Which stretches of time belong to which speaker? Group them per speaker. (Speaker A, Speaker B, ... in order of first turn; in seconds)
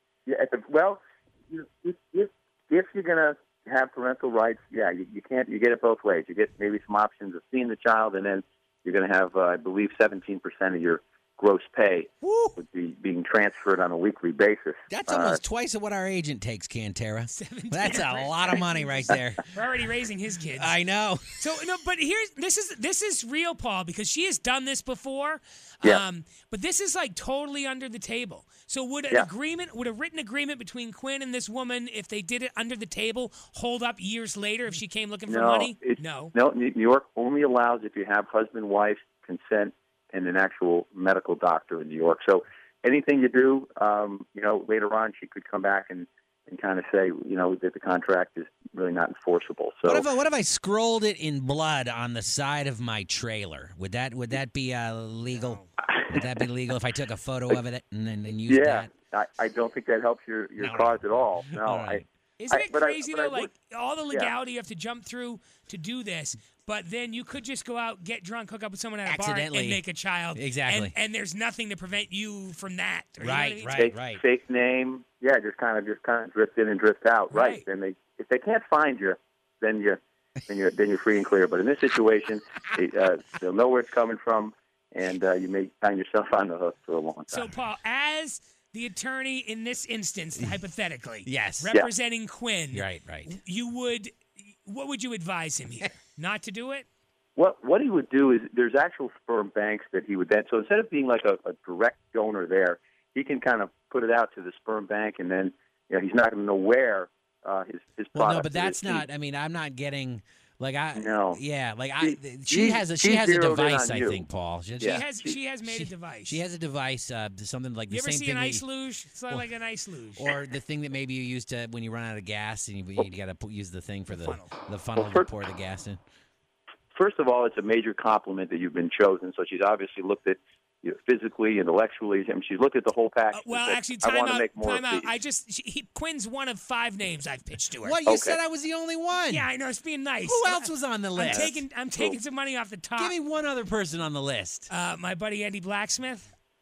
Speaker A: 0.3-15.4, 35.3-50.1, 58.5-63.5, 73.8-87.5, 97.4-109.0, 110.9-111.4, 112.0-114.2, 114.8-115.4, 125.0-125.3, 126.9-135.1, 138.1-138.4, 141.2-142.2
Speaker B: 12.2-12.6, 14.9-19.5, 20.6-21.5, 49.9-58.9, 60.6-62.0, 69.0-69.8, 70.3-70.9, 73.2-74.2, 91.3-91.7, 92.7-93.4, 108.2-115.1, 115.6-118.6, 120.2-126.0, 137.8-139.5, 140.3-141.6, 143.0-144.7
Speaker C: 17.3-20.8, 21.4-36.3, 55.3-55.7, 62.4-73.8, 77.3-77.6, 87.3-96.8, 114.8-116.4, 117.9-120.3, 124.1-124.5, 133.3-138.0, 139.3-143.2, 144.7-146.3